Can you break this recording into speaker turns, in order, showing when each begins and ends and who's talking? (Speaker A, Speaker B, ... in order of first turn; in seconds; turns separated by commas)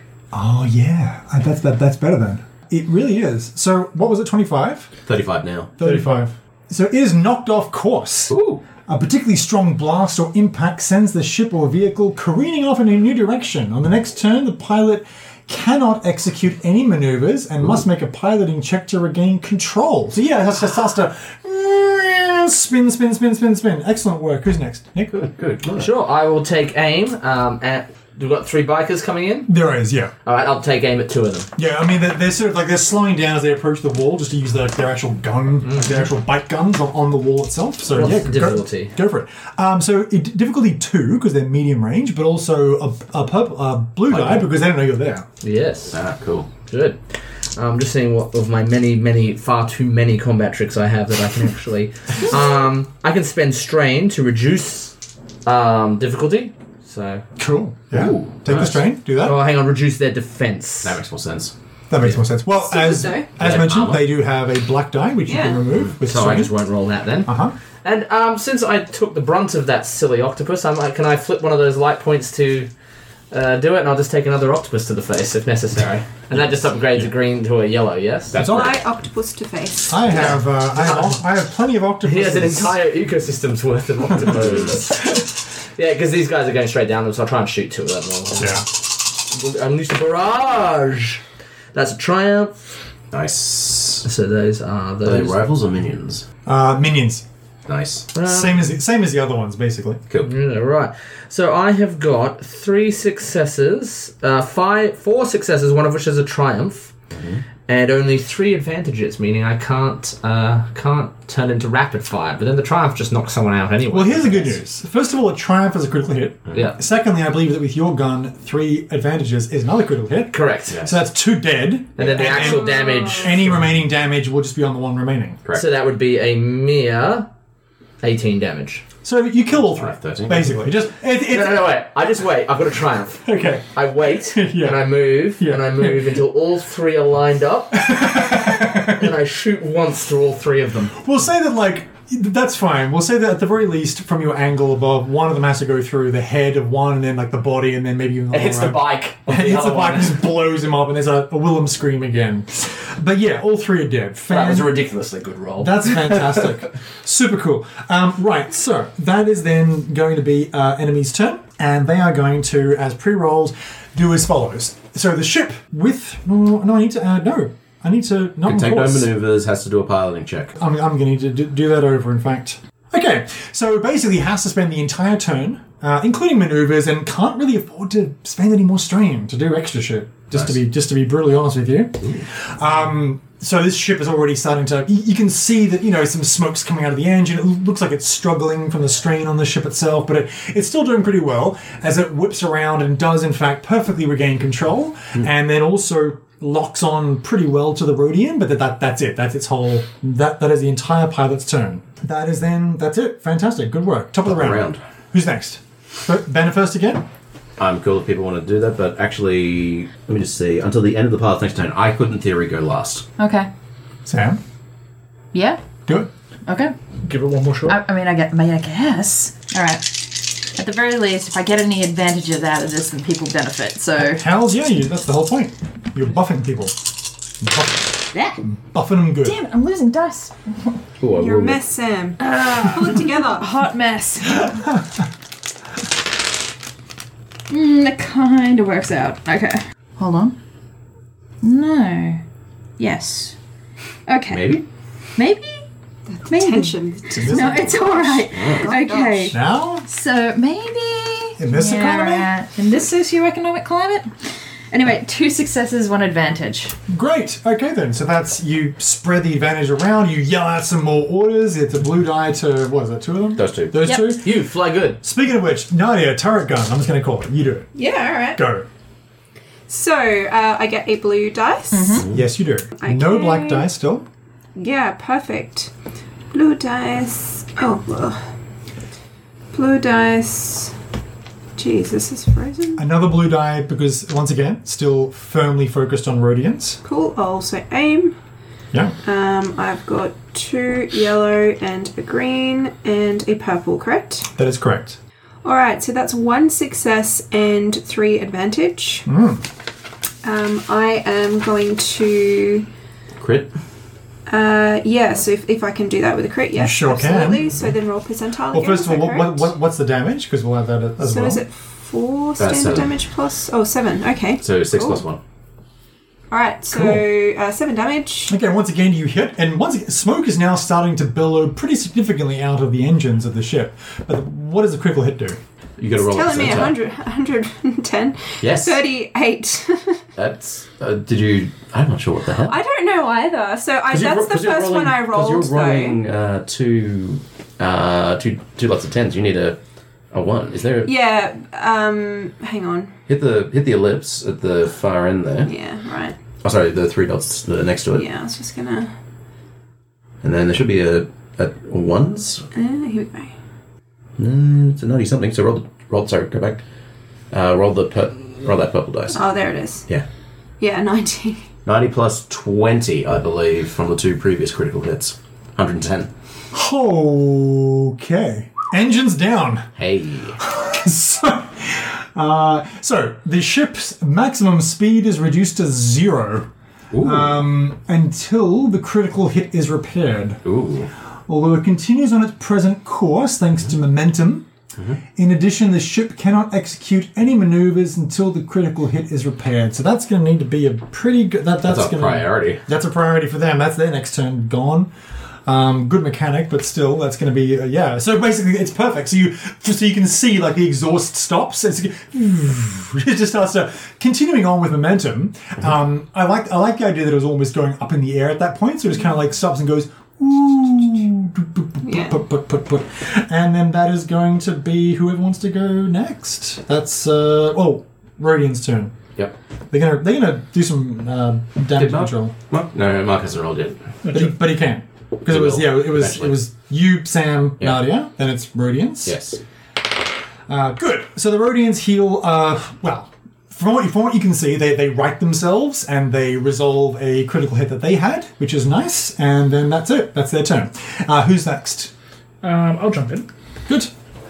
Speaker A: 0.3-4.9, Speaker B: 5.0-5.7, Speaker A: 5.8-8.3, Speaker C: 5.8-6.1, Speaker B: 8.3-8.6, Speaker A: 8.9-25.2, Speaker B: 25.1-25.9, Speaker D: 25.8-29.5, Speaker A: 29.5-30.1, Speaker D: 30.2-31.5, Speaker A: 31.6-45.2, Speaker D: 35.6-36.0, Speaker D: 37.9-38.9, Speaker B: 44.1-44.5, Speaker D: 45.4-46.0, Speaker B: 45.9-46.5, Speaker D: 46.6-47.0, Speaker D: 47.5-57.2, Speaker A: 57.4-59.4, Speaker B: 57.9-58.8, Speaker D: 58.5-61.0, Speaker B: 60.8-61.5, Speaker A: 61.9-66.5, Speaker E: 62.5-63.3, Speaker B: 63.4-64.1, Speaker E: 65.3-65.6, Speaker D: 66.0-72.7, Speaker A: 67.2-67.5, Speaker D: 73.3-78.4, Speaker B: 78.3-78.8, Speaker A: 78.3-78.8, Speaker E: 78.5-80.0, Speaker A: 79.9-82.8, Speaker D: 80.1-81.2, Speaker D: 82.0-85.2, Speaker B: 84.3-84.8, Speaker D: 85.8-91.2, Speaker A: 88.4-88.7, Speaker D: 91.7-92.7, Speaker B: 93.1-94.0, Speaker D: 94.0-95.4, Speaker B: 95.0-96.2, Speaker A: 96.5-97.2, Speaker B: 97.7-98.1, Speaker D: 98.1-98.7, Speaker A: 98.2-100.0, Speaker D: 100.2-106.9, Speaker B: 107.1-107.4, Speaker D: 107.7-114.6, Speaker A: 113.9-125.4, Speaker D: 120.3-120.8, Speaker B: 120.7-121.0, Speaker D: 122.0-123.6, Speaker B: 122.0-122.4, Speaker E: 122.4-123.2, Speaker D: 125.5-127.3, Speaker D: 128.0-128.8, Speaker A: 129.0-131.8, Speaker B: 129.6-130.7, Speaker D: 131.3-141.0, Speaker A: 133.2-136.1, Speaker A: 137.8-139.1, Speaker A: 141.0-154.8, Speaker D: 148.3-150.2, Speaker D: 154.3-156.4, Speaker A: 155.6-169.1, Speaker B: 168.4-170.6, Speaker A: 170.6-207.0, Speaker B: 204.2-204.8, Speaker B: 207.6-213.1, Speaker F: 213.2-213.5, Speaker A: 214.1-214.4, Speaker F: 215.3-215.6, Speaker F: 216.4-216.7, Speaker C: 217.0-217.8, Speaker F: 217.6-224.2, Speaker A: 224.0-226.8, Speaker A: 227.4-229.4, Speaker F: 228.1-228.4, Speaker F: 229.2-230.8, Speaker B: 231.0-231.6, Speaker E: 231.1-233.5, Speaker F: 232.2-234.7, Speaker F: 237.5-240.3, Speaker F: 241.4-242.2, Speaker F: 242.8-243.3, Speaker F: 244.1-244.6, Speaker B: 244.3-244.6, Speaker F: 245.2-245.6, Speaker E: 246.1-249.3, Speaker F: 246.3-256.7, Speaker A: 247.1-248.2, Speaker B: 248.3-248.8, Speaker A: 249.3-249.8, Speaker A: 251.4-252.3, Speaker A: 256.9-264.4, Speaker B: 263.4-263.8, Speaker F: 263.8-264.1, Speaker D: 264.1-265.0, Speaker A: 265.0-267.7, Speaker E: 267.7-268.4, Speaker A: 268.3-268.7, Speaker E: 269.7-272.0, Speaker F: 271.7-272.1, Speaker A: 272.1-274.1, Speaker E: 272.8-273.6, Speaker E: 274.6-275.7, Speaker E: 276.3-278.3, Speaker E: 279.5-280.7, Speaker E: 281.6-282.8, Speaker A: 282.8-286.8, Speaker E: 286.8-288.1, Speaker E: 289.0-294.3, Speaker A: 294.4-295.0, Speaker E: 295.4-299.1, Speaker A: 299.1-299.4, Speaker E: 300.2-302.7, Speaker B: 303.2-303.5, Speaker E: 304.3-309.5, Speaker A: 306.5-307.6, Speaker A: 308.5-311.4, Speaker E: 311.0-315.0, Speaker B: 312.4-312.9, Speaker B: 314.4-315.2, Speaker E: 316.3-318.3, Speaker A: 316.7-317.1, Speaker A: 318.3-325.4, Speaker B: 325.8-326.8, Speaker E: 326.0-330.0, Speaker B: 328.4-328.8, Speaker B: 330.1-332.6, Speaker E: 332.4-336.0, Speaker B: 333.9-339.6, Speaker B: 340.1-340.9, Speaker E: 340.8-342.9, Speaker B: 343.1-345.5, Speaker E: 345.4-346.2, Speaker B: 346.4-348.1, Speaker E: 347.9-348.9, Speaker B: 350.2-352.4, Speaker E: 352.5-353.3, Speaker B: 354.2-356.6, Speaker B: 357.3-359.2, Speaker E: 359.1-359.8, Speaker E: 360.6-361.4, Speaker B: 361.6-366.1, Speaker A: 366.5-369.6, Speaker B: 369.8-370.4, Speaker A: 370.4-376.5, Speaker B: 376.9-377.4, Speaker A: 377.0-380.4, Speaker B: 380.4-380.9, Speaker A: 381.3-384.5, Speaker A: 385.1-394.9, Speaker B: 391.6-392.6, Speaker A: 395.4-418.9, Speaker E: 411.8-412.2, Speaker A: 419.7-422.3, Speaker B: 421.7-423.8, Speaker C: 424.0-424.3, Speaker A: 424.1-429.1, Speaker B: 425.3-426.4, Speaker B: 429.0-429.4, Speaker A: 430.5-441.9, Speaker C: 442.4-443.3